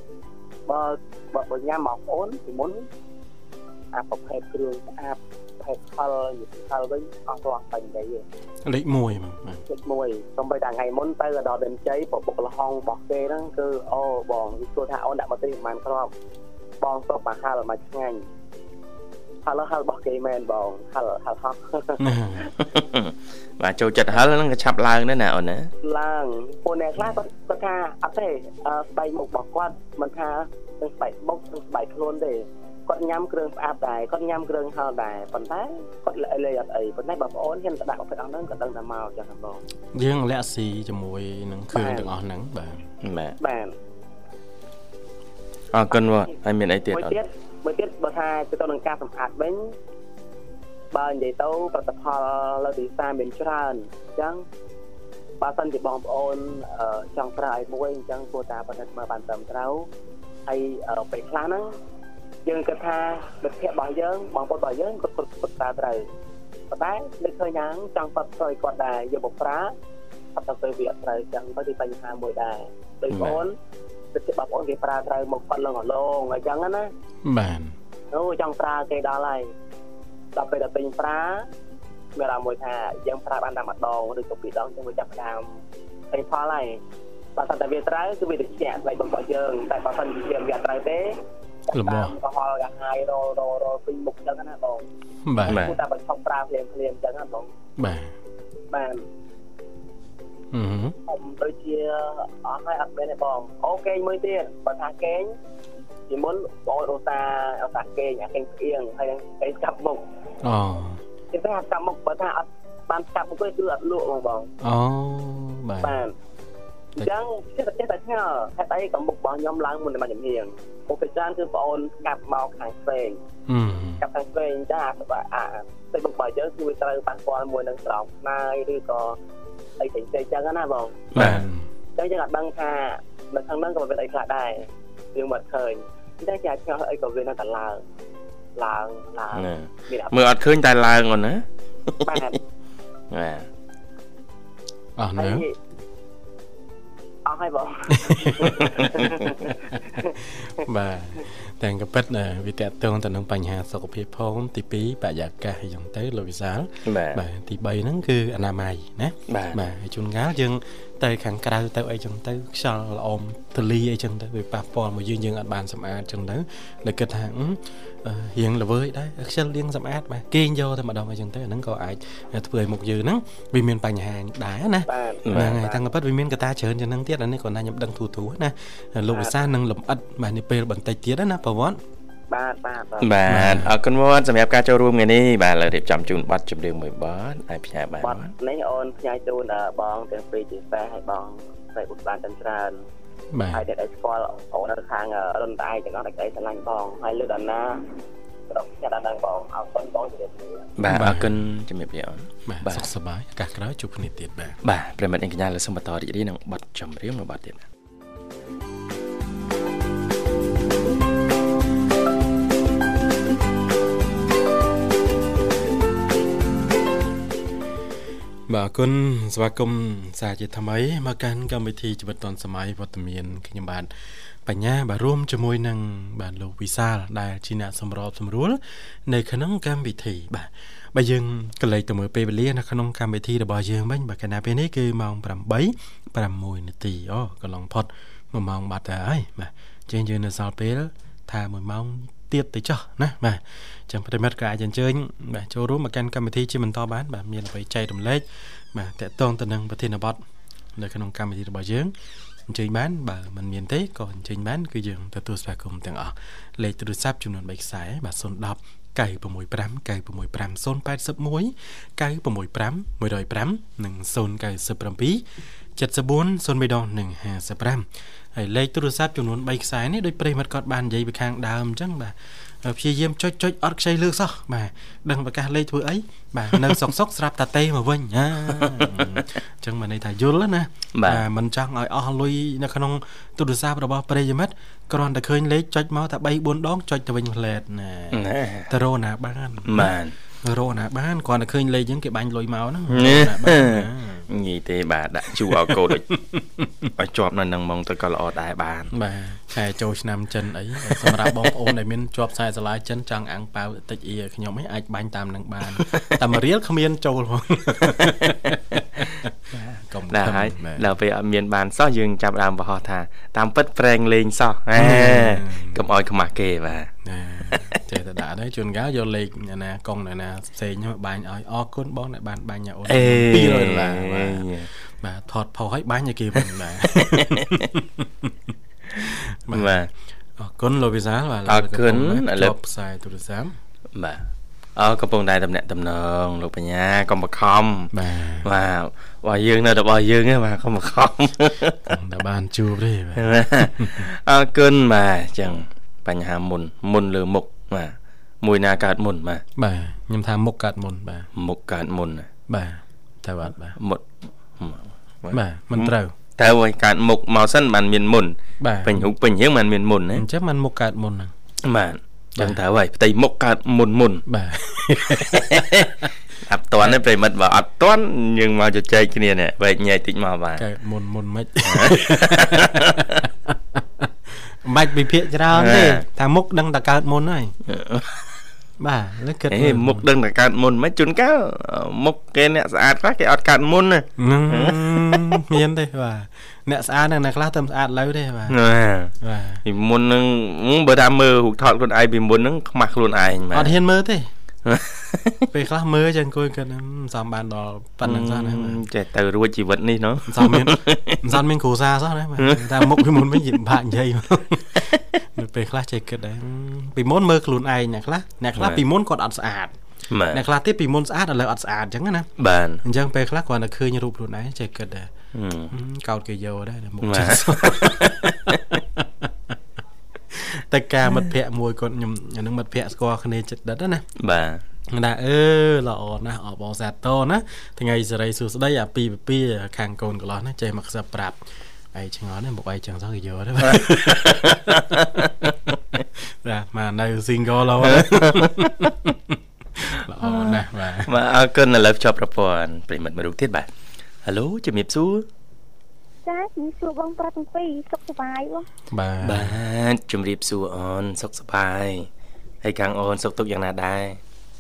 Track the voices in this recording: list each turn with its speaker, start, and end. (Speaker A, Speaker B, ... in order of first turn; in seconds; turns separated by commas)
Speaker A: 0.7-2.9, Speaker A: 3.9-8.2, Speaker B: 8.7-9.6, Speaker A: 9.7-16.1, Speaker A: 16.8-18.2, Speaker A: 19.4-22.5, Speaker B: 22.0-22.5, Speaker C: 22.6-25.7, Speaker A: 25.8-39.6, Speaker B: 39.9-42.9, Speaker A: 41.7-42.1, Speaker C: 43.0-43.4, Speaker A: 43.4-43.7, Speaker C: 45.7-47.2, Speaker A: 46.9-49.7, Speaker A: 50.9-54.4, Speaker A: 55.4-59.9, Speaker A: 60.5-61.8, Speaker A: 62.5-66.0, Speaker A: 66.7-69.7, Speaker A: 70.4-73.5, Speaker C: 73.1-73.4, Speaker A: 74.1-76.9, Speaker B: 77.2-77.8, Speaker A: 78.1-79.5, Speaker A: 80.3-81.5, Speaker A: 82.2-85.5, Speaker A: 86.1-86.8, Speaker A: 87.4-91.2, Speaker A: 91.7-94.9, Speaker B: 91.7-92.2, Speaker B: 95.3-95.7, Speaker A: 95.4-97.5, Speaker C: 95.5-95.8, Speaker B: 97.8-98.1, Speaker A: 98.7-99.0, Speaker B: 100.5-101.0, Speaker A: 101.1-105.3, Speaker A: 106.1-110.0, Speaker B: 110.4-111.0, Speaker A: 111.3-114.5, Speaker B: 114.6-116.0, Speaker A: 115.8-116.1, Speaker A: 117.0-123.2, Speaker B: 123.5-124.0, Speaker A: 124.0-129.2, Speaker A: 129.8-131.1, Speaker C: 131.1-131.4, Speaker B: 131.2-131.7, Speaker A: 132.0-137.8, Speaker A: 138.6-140.2, Speaker C: 139.3-142.3, Speaker A: 142.0-142.4, Speaker C: 143.1-143.5, Speaker B: 145.0-145.4, Speaker A: 145.2-145.5, Speaker A: 147.2-150.2, Speaker B: 147.9-148.5, Speaker C: 148.5-149.1, Speaker B: 149.7-181.8, Speaker C: 156.9-157.2, Speaker C: 159.3-159.6, Speaker A: 174.9-175.8, Speaker C: 175.2-175.6, Speaker A: 179.1-179.4, Speaker A: 182.3-183.1, Speaker C: 183.0-188.3, Speaker B: 183.3-183.7, Speaker A: 188.0-192.8, Speaker B: 193.3-193.7, Speaker A: 193.5-197.8, Speaker A: 198.5-200.7, Speaker C: 200.8-202.9, Speaker B: 200.9-201.5, Speaker B: 202.5-204.6, Speaker C: 204.6-207.7, Speaker B: 218.5-223.9, Speaker B: 224.4-250.2, Speaker B: 250.8-251.9, Speaker B: 252.5-265.2, Speaker B: 265.8-294.3, Speaker C: 278.5-279.2, Speaker C: 280.9-281.2, Speaker C: 288.1-288.7, Speaker C: 289.7-290.1, Speaker C: 292.9-296.1, Speaker B: 295.3-296.9, Speaker C: 297.0-298.9, Speaker B: 298.9-309.3, Speaker C: 300.9-301.7, Speaker C: 305.7-306.2, Speaker C: 307.9-316.9, Speaker B: 309.8-310.9, Speaker B: 314.8-315.8, Speaker B: 317.0-328.3, Speaker C: 322.9-324.7, Speaker C: 327.1-327.6, Speaker B: 328.9-329.8, Speaker C: 329.5-329.9, Speaker B: 330.4-333.5, Speaker C: 331.5-332.6, Speaker C: 333.9-337.9, Speaker B: 337.9-338.5, Speaker C: 338.4-341.8, Speaker B: 341.9-344.1, Speaker C: 343.2-349.4, Speaker B: 349.6-351.3, Speaker C: 351.4-352.3, Speaker B: 352.5-353.8, Speaker C: 353.8-354.0, Speaker C: 354.6-360.2, Speaker B: 355.3-356.2, Speaker B: 358.6-359.1, Speaker B: 360.1-361.3, Speaker C: 361.6-364.2, Speaker B: 364.3-366.1, Speaker C: 365.1-370.6, Speaker B: 370.6-377.6, Speaker C: 371.7-373.3, Speaker C: 375.5-376.0, Speaker C: 377.7-378.4, Speaker B: 378.8-380.0, Speaker C: 379.5-385.4, Speaker B: 384.2-388.6, Speaker C: 388.5-389.1, Speaker B: 389.2-389.6, Speaker C: 389.6-393.8, Speaker B: 393.5-394.3, Speaker C: 394.7-395.5, Speaker B: 395.5-398.8, Speaker C: 398.0-401.2, Speaker B: 400.3-409.8, Speaker C: 402.4-402.9, Speaker C: 408.6-408.8, Speaker C: 410.1-410.4, Speaker B: 410.3-412.3, Speaker C: 412.4-412.8, Speaker B: 412.8-415.1, Speaker C: 415.3-415.7, Speaker B: 415.7-419.6, Speaker C: 417.0-418.6, Speaker B: 420.3-424.1, Speaker C: 424.2-424.6, Speaker B: 424.9-435.4, Speaker C: 433.7-436.0, Speaker B: 436.2-441.1, Speaker C: 437.8-438.7, Speaker C: 440.1-443.7, Speaker C: 444.2-445.3, Speaker D: 446.2-448.7, Speaker B: 448.9-449.6, Speaker C: 449.2-452.1, Speaker C: 452.6-454.2